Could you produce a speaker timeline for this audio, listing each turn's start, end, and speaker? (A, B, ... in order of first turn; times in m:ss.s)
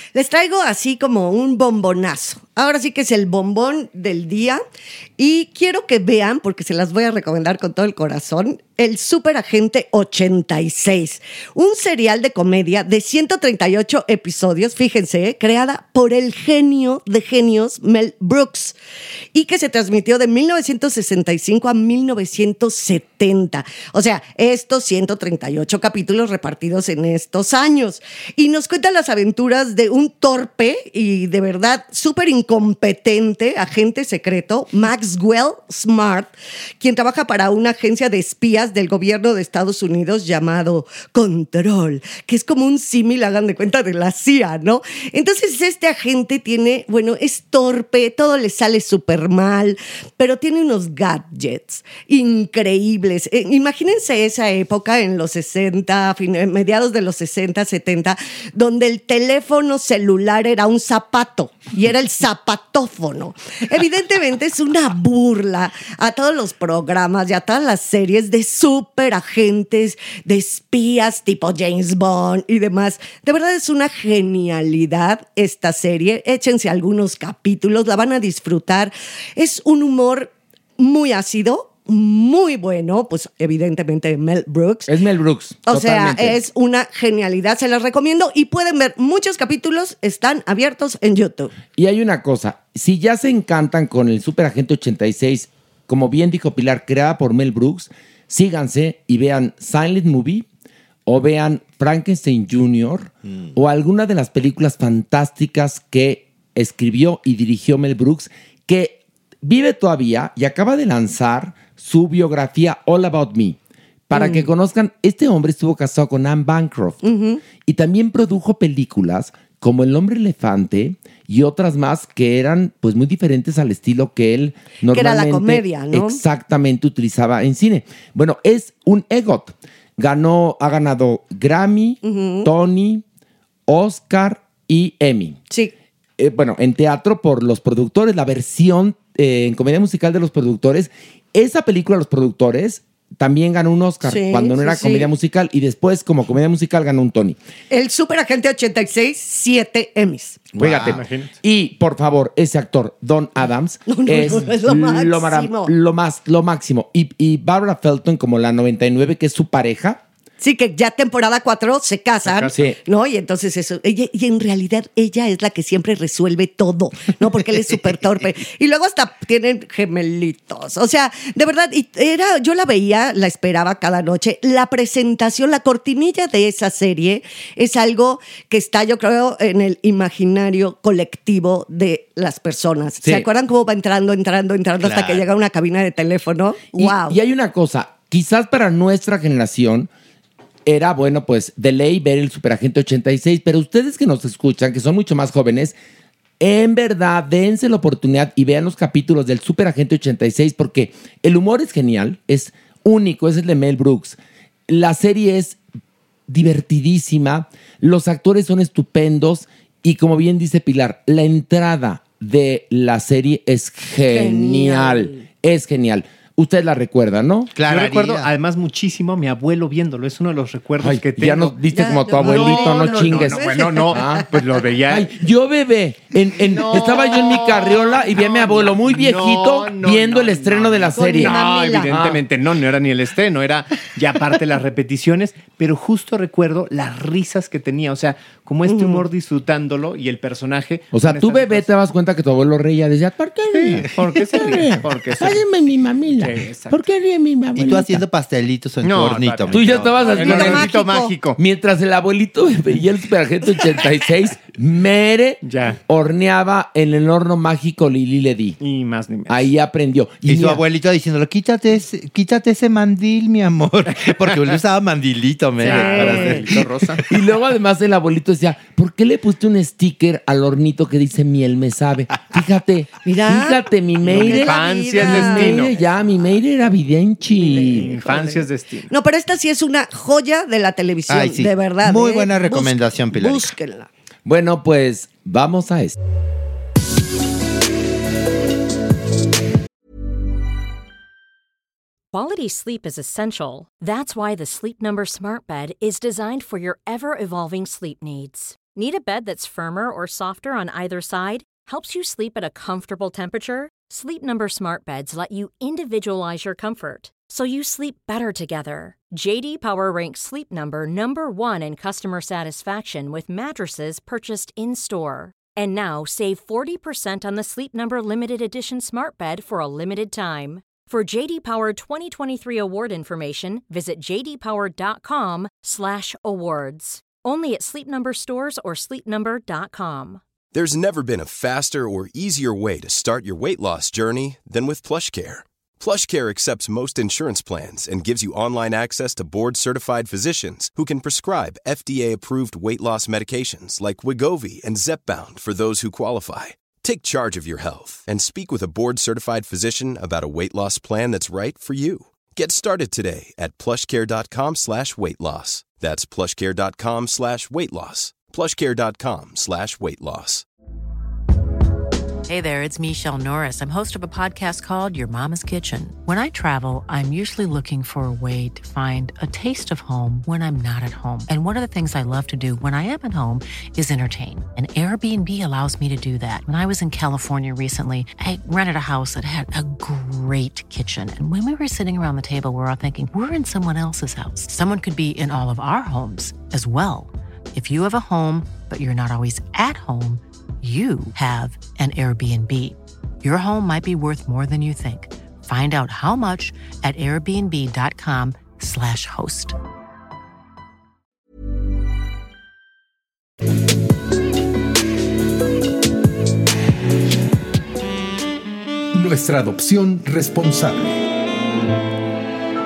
0:00.2-0:04.6 A
0:05.2-0:18.8 A
0:19.3-1:24.9 A
1:24.9-1:26.4 B
1:25.7-1:31.6 A
1:31.8-1:40.5 B
1:41.1-1:53.6 B
1:54.1-1:57.0 B
1:54.1-1:54.5 A
1:57.0-1:57.4 A
1:57.6-2:13.0 B
2:04.9-2:06.2 A
2:12.0-2:12.5 A
2:13.7-2:15.4 B
2:16.2-2:27.4 B
2:24.0-2:25.1 A
2:27.7-2:30.5 A
2:30.6-2:31.1 C
2:30.6-2:40.0 B
2:30.9-2:31.3 D
2:33.9-2:35.7 A
2:40.4-3:07.2 A
2:42.3-2:42.5 D
2:42.5-2:42.8 B
3:04.8-3:05.3 C
3:06.7-3:09.9 B
3:10.7-3:15.8 B
3:16.4-3:25.6 B
3:26.3-3:37.5 B
3:34.1-3:35.2 A
3:37.6-3:38.3 C
3:37.6-3:45.1 D
3:40.8-3:52.2 B
3:41.7-3:44.2 A
3:46.6-4:01.7 D
3:50.9-3:51.9 A
3:58.7-3:59.0 A
4:00.9-4:08.0 B
4:03.5-4:05.4 D
4:06.2-4:06.8 D
4:07.6-4:10.1 C
4:08.8-4:11.4 D
4:09.5-4:10.8 B
4:10.0-4:11.1 A
4:11.4-4:18.6 B
4:15.4-4:15.8 D
4:18.6-4:19.5 D
4:19.3-4:20.6 B
4:20.2-4:26.9 C
4:25.6-4:27.0 D
4:25.6-4:26.4 A
4:27.1-4:38.0 B
4:33.0-4:35.7 A
4:34.1-4:35.8 D
4:37.4-4:38.9 D
4:38.2-4:43.9 A
4:41.1-4:43.5 C
4:44.3-4:45.9 B
4:52.1-5:30.2 E
5:30.5-6:00.4 F
6:02.3-6:39.6 G
6:48.9-6:51.0 H